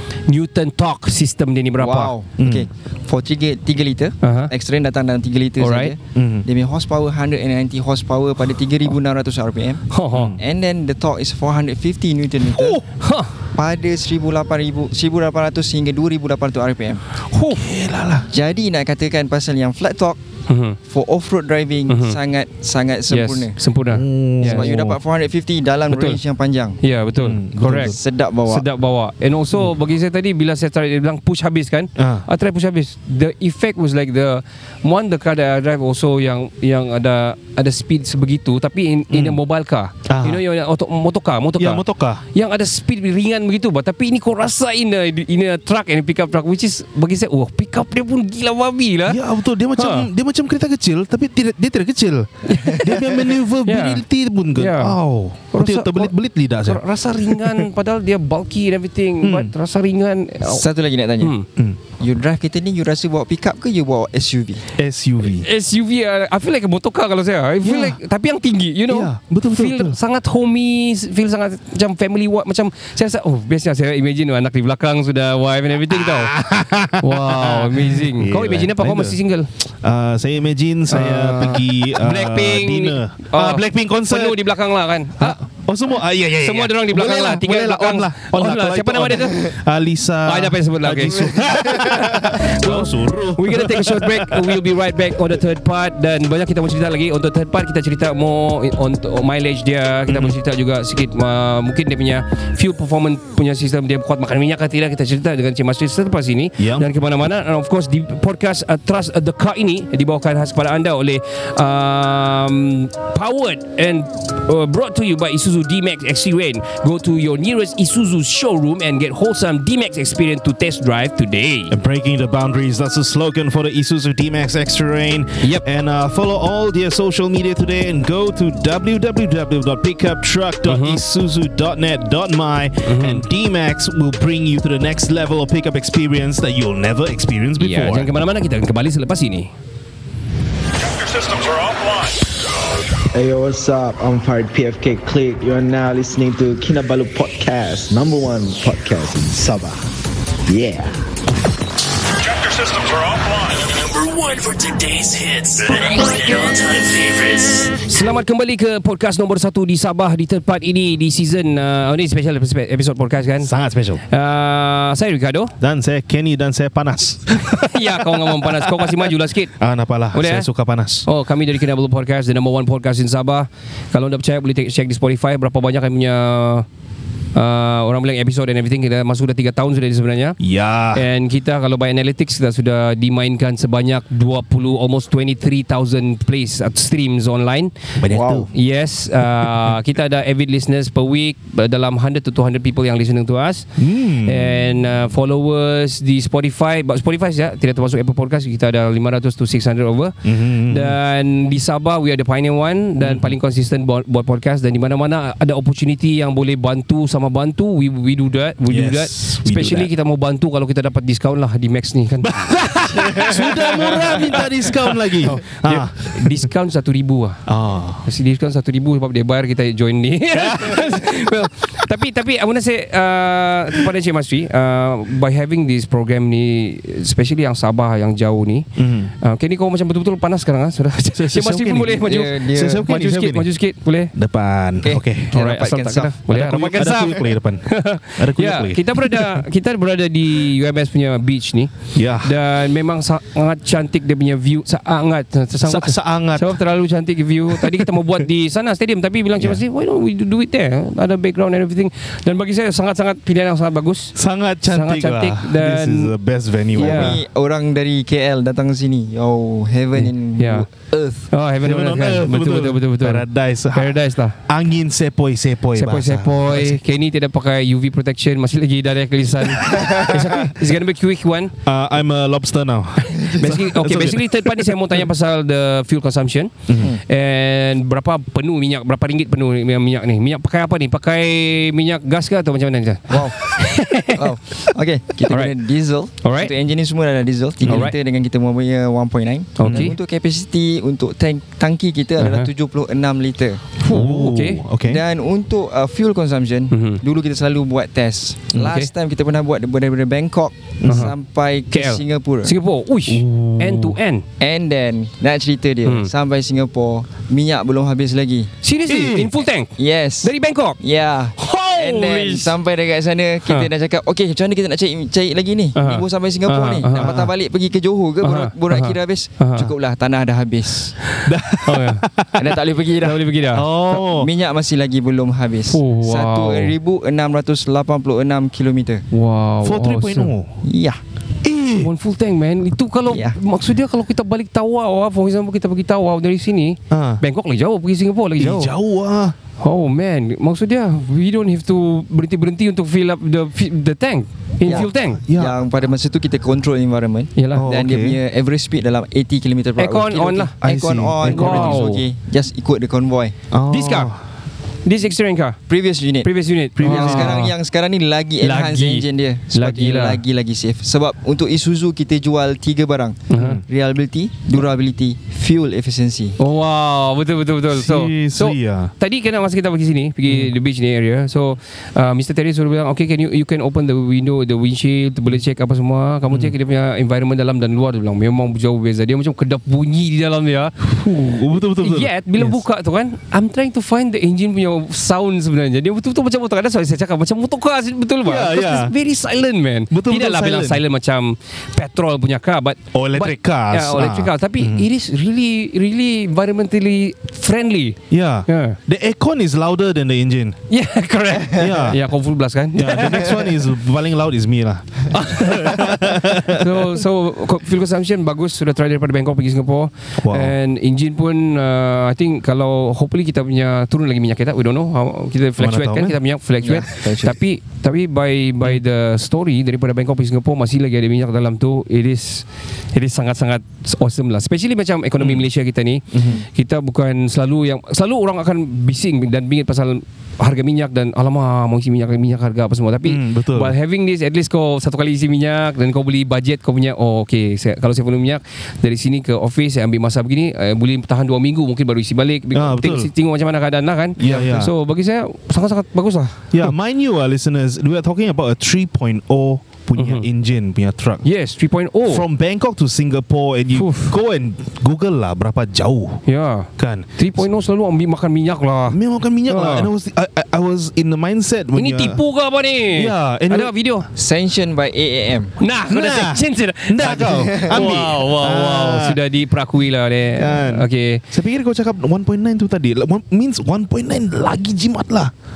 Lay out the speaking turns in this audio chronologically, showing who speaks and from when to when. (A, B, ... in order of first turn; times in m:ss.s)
0:00.3-0:02.1 A
0:01.8-0:09.8 B
0:02.4-0:02.7 C
0:04.2-0:04.5 A
0:05.6-0:05.9 A
0:06.1-0:06.4 C
0:09.9-0:10.3 A
0:10.1-0:10.4 C
0:10.4-0:12.8 B
0:12.7-0:13.3 A
0:13.5-0:17.0 B
0:17.3-0:17.6 A
0:17.5-0:18.3 C
0:18.3-0:20.2 B
0:20.5-0:20.8 A
0:20.9-0:23.6 B
0:21.9-0:22.2 A
0:23.1-0:24.7 A
0:23.9-0:25.0 C
0:24.4-0:26.8 B
0:25.9-0:26.2 A
0:26.8-0:28.0 A
0:27.2-0:28.0 C
0:27.6-0:28.6 B
0:28.5-0:49.2 A
0:32.0-0:32.2 C
0:39.1-0:39.4 C
0:40.0-0:40.4 C
0:41.6-0:42.2 C
0:49.1-0:57.7 C
0:49.8-0:50.1 A
0:52.5-0:54.0 A
0:54.5-0:55.0 A
0:55.5-1:00.6 A
0:59.2-0:59.5 C
1:00.4-1:01.3 B
1:01.2-1:01.4 A
1:02.0-1:04.6 B
1:04.8-1:05.5 C
1:05.2-1:16.3 A
1:07.6-1:08.0 C
1:08.9-1:10.0 C
1:15.9-1:24.4 C
1:17.0-1:19.5 A
1:20.9-1:25.4 A
1:25.2-1:34.6 C
1:26.4-1:29.6 A
1:30.2-2:01.7 A
1:40.1-1:40.4 C
1:46.6-1:46.9 C
2:01.7-2:18.1 C
2:10.6-2:11.0 A
2:12.8-2:13.2 A
2:17.6-2:19.5 A
2:23.1-2:29.8 D
2:30.5-2:31.0 D
2:32.4-2:37.8 E
2:37.9-2:43.5 A
2:43.4-2:44.0 C
2:44.1-2:45.5 A
2:45.6-2:51.1 C
2:47.6-2:49.5 A
2:50.1-2:50.5 A
2:51.0-2:56.6 A
2:57.3-3:00.4 A
3:00.4-3:01.0 C
3:00.9-3:07.7 A
3:08.0-3:08.5 C
3:08.5-3:13.7 A
3:09.4-3:09.7 C
3:13.8-3:14.9 C
3:14.2-3:20.2 A
3:20.2-3:21.0 C
3:20.7-3:37.4 A
3:23.0-3:23.4 C
3:28.7-3:29.9 C
3:32.2-3:36.5 C
3:37.5-3:38.0 C
3:38.0-3:48.7 A
3:40.3-3:40.9 C
3:48.8-3:49.1 C
3:49.2-3:54.1 A
3:51.1-3:53.5 C
3:52.0-3:52.8 B
3:54.1-3:55.4 C
3:54.8-3:56.2 B
3:55.3-4:14.1 A
3:56.3-3:59.4 C
4:01.9-4:02.3 C
4:05.6-4:06.6 C
4:07.5-4:07.9 C
4:14.1-4:17.2 C
4:14.7-4:16.1 A
4:16.7-4:21.2 B
4:16.8-4:17.2 A
4:20.0-4:20.7 A
4:21.3-4:24.4 A
4:21.6-4:26.8 C
4:25.7-4:31.5 A
4:31.6-4:35.0 C
4:33.2-4:36.5 A
4:36.7-4:37.0 C
4:37.0-4:44.2 A
4:43.1-4:53.6 B
4:45.3-4:45.5 A
4:46.2-4:46.5 A
4:47.6-4:47.9 C
4:47.6-4:47.9 A
4:49.6-4:50.0 A
4:49.6-4:49.9 C
4:52.2-4:52.5 A
4:53.8-4:54.6 A
4:53.8-4:55.0 C
4:54.8-5:02.5 B
4:56.7-4:57.0 A
4:58.6-4:58.9 A
5:00.8-5:01.1 C
5:00.9-5:01.1 A
5:01.7-5:04.2 A
5:03.1-5:04.0 C
5:04.4-5:08.5 B
5:05.8-5:06.1 A
5:08.6-5:10.8 A
5:08.9-5:09.3 C
5:09.8-5:20.9 B
5:11.4-5:12.5 A
5:15.7-5:17.3 A
5:16.9-5:17.3 C
5:18.2-5:19.7 A
5:21.2-5:22.0 A
5:21.2-5:22.6 C
5:22.4-5:23.2 B
5:23.0-5:23.7 A
5:23.5-5:24.3 C
5:23.9-5:29.0 B
5:25.7-5:26.7 A
5:29.1-5:30.3 A
5:29.6-5:30.6 C
5:30.6-5:31.0 B
5:31.4-5:31.9 C
5:31.8-5:38.7 A
5:33.0-5:33.4 B
5:36.9-5:37.2 C
5:38.4-5:39.4 C
5:39.6-5:45.2 A
5:44.6-5:53.4 B
5:44.7-5:45.6 C
5:47.4-5:47.7 A
5:47.5-5:48.2 C
5:49.8-5:50.5 A
5:50.6-5:51.9 C
5:51.2-5:52.0 A
5:53.5-5:54.2 C
5:53.7-5:54.1 A
5:54.8-5:55.6 A
5:55.7-6:06.4 B
5:56.2-5:57.5 A
5:56.8-5:57.5 C
5:58.4-5:59.0 C
5:58.5-6:00.2 A
6:03.3-6:03.6 A
6:03.4-6:03.6 C
6:06.4-6:20.7 A
6:07.7-6:08.9 C
6:20.8-6:22.6 C
6:21.8-6:38.8 A
6:28.2-6:28.9 C
6:29.9-6:30.8 C
6:32.9-6:34.8 C
6:38.1-6:40.6 C
6:40.7-6:43.4 A
6:41.5-6:42.0 C
6:42.7-6:46.9 C
6:45.1-7:26.7 A
6:50.2-6:50.5 C
6:55.6-6:56.2 C
6:56.6-6:57.3 B
7:05.2-7:05.4 C
7:06.1-7:06.4 C
7:13.0-7:13.7 C
7:22.5-7:23.1 C
7:24.2-7:24.7 C
7:26.5-7:31.2 C
7:30.0-7:30.3 A
7:31.2-7:32.2 A
7:32.1-7:36.2 C
7:33.7-7:34.1 A
7:36.2-7:39.9 A
7:36.8-7:37.4 C
7:38.9-7:42.2 C
7:41.8-7:44.1 A
7:42.9-7:43.7 C
7:44.1-7:45.5 B
7:45.6-7:51.2 A
7:45.9-7:49.2 C
7:47.0-7:47.8 B
7:50.4-7:55.3 C